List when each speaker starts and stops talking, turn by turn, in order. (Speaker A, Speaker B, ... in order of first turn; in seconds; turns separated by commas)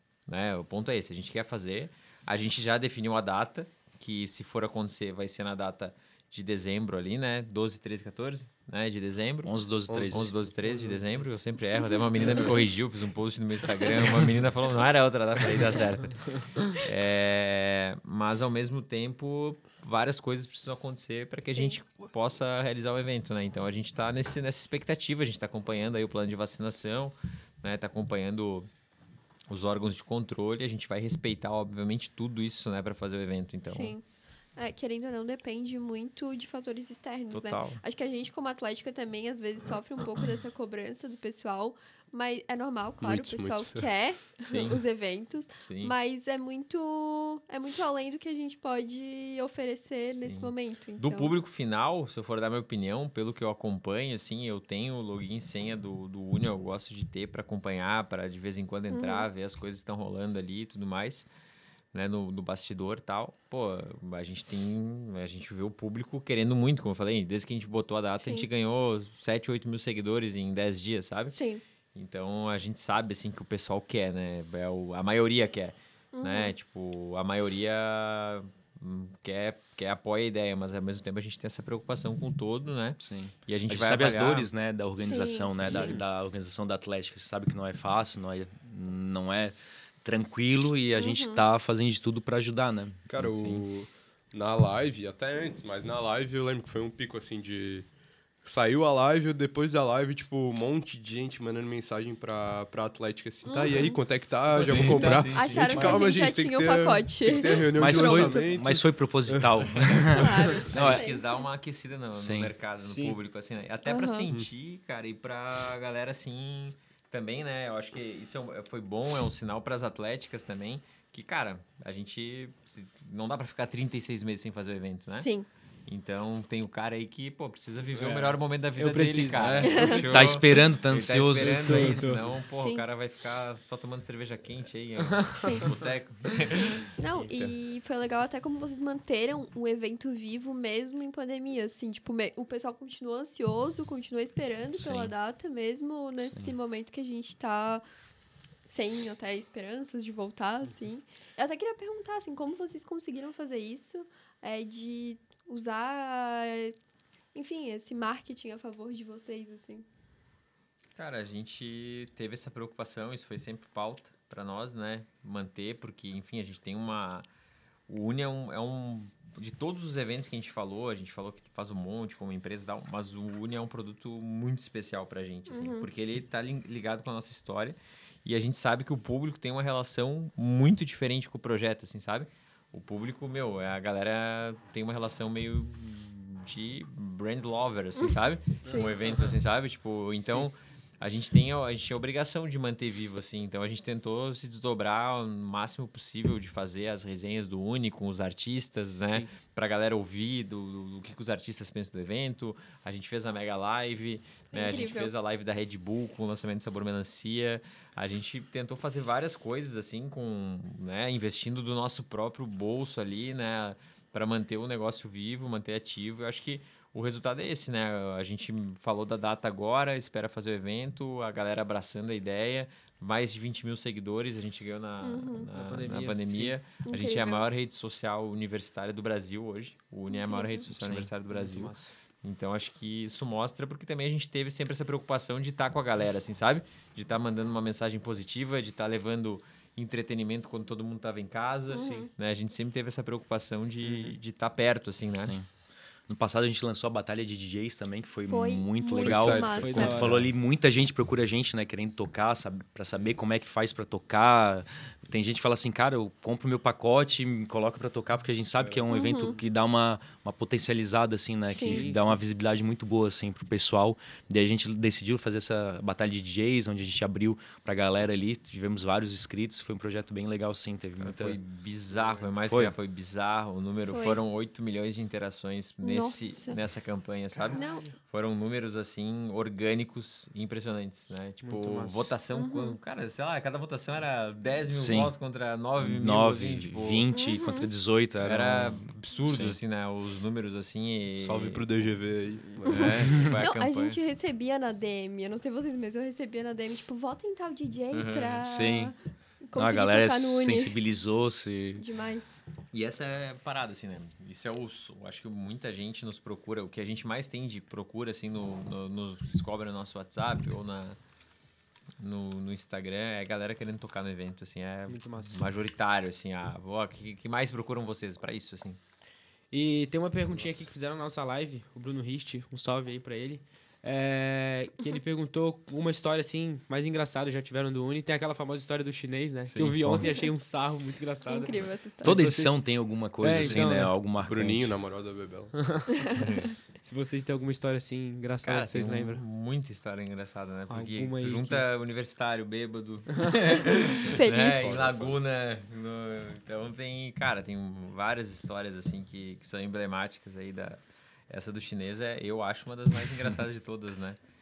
Speaker A: 0.3-28.7, Speaker B: 9.4-10.3, Speaker C: 9.9-10.3, Speaker D: 10.6-11.3, Speaker A: 29.5-33.9, Speaker E: 33.7-34.0, Speaker E: 34.5-51.3, Speaker A: 37.3-37.8, Speaker C: 43.0-43.9, Speaker A: 44.4-44.8, Speaker A: 45.6-45.9, Speaker A: 50.2-61.3, Speaker E: 58.9-59.3, Speaker A: 61.9-71.3, Speaker E: 68.2-68.5, Speaker E: 71.3-71.6, Speaker A: 71.9-84.5, Speaker E: 76.1-76.5, Speaker B: 83.0-93.6, Speaker E: 85.0-86.0, Speaker A: 85.7-86.0, Speaker E: 91.0-91.4, Speaker C: 93.1-97.9, Speaker C: 98.4-110.3, Speaker E: 103.4-104.0, Speaker A: 104.5-106.1, Speaker D: 104.5-105.3, Speaker E: 105.3-108.7, Speaker B: 107.7-111.0, Speaker E: 110.1-111.4, Speaker A: 110.7-125.3, Speaker B: 112.1-112.5, Speaker D: 112.8-113.2, Speaker E: 113.8-114.3, Speaker E: 125.1-125.5, Speaker A: 125.9-136.9, Speaker D: 127.9-130.0, Speaker B: 129.3-132.1, Speaker E: 129.6-130.2, Speaker D: 131.4-132.2, Speaker E: 132.6-132.8, Speaker D: 135.1-135.7, Speaker E: 135.4-135.7, Speaker E: 136.6-147.8, Speaker A: 144.8-145.1, Speaker B: 146.3-146.5, Speaker E: 148.7-156.7, Speaker E: 157.3-159.8, Speaker A: 160.9-167.2, Speaker A: 167.9-245.3, Speaker E: 175.5-175.9, Speaker D: 188.6-189.4, Speaker D: 190.2-190.5, Speaker D: 199.0-199.3, Speaker E: 204.5-205.1, Speaker E: 225.0-225.5, Speaker D: 225.5-226.6, Speaker E: 226.8-227.4, Speaker E: 230.1-230.7, Speaker B: 230.7-231.1, Speaker D: 231.3-231.9, Speaker D: 241.7-242.1, Speaker E: 241.7-242.1, Speaker B: 245.2-245.5, Speaker B: 246.1-271.4, Speaker E: 248.2-250.3, Speaker C: 248.9-250.0, Speaker D: 249.6-250.3, Speaker C: 258.6-258.9, Speaker E: 258.9-259.3, Speaker E: 261.5-261.8, Speaker D: 261.6-262.2, Speaker A: 271.0-287.1, Speaker C: 271.9-272.3, Speaker B: 272.5-272.7, Speaker E: 273.9-274.2, Speaker E: 275.8-276.6, Speaker D: 277.5-277.9, Speaker E: 277.5-277.9, Speaker D: 281.4-282.1, Speaker E: 282.3-282.8, Speaker B: 284.7-285.1, Speaker B: 285.8-289.6, Speaker E: 287.1-287.7, Speaker A: 288.2-291.6, Speaker C: 291.2-293.3, Speaker A: 292.7-294.0, Speaker E: 293.4-298.9, Speaker A: 297.9-298.4, Speaker B: 298.4-298.9, Speaker E: 299.5-300.7, Speaker B: 299.5-301.8, Speaker E: 301.8-302.3, Speaker A: 302.7-310.9, Speaker A: 312.0-318.8, Speaker D: 314.9-315.4, Speaker D: 319.5-334.0, Speaker C: 320.3-320.7, Speaker A: 329.5-329.8, Speaker B: 329.8-330.1, Speaker E: 330.0-330.3, Speaker E: 331.2-332.1, Speaker B: 332.0-334.7, Speaker C: 334.2-335.5, Speaker D: 335.6-336.0, Speaker A: 336.2-336.4, Speaker D: 336.8-339.2, Speaker A: 338.4-354.2, Speaker D: 340.7-341.6, Speaker E: 344.2-344.8, Speaker C: 344.4-345.2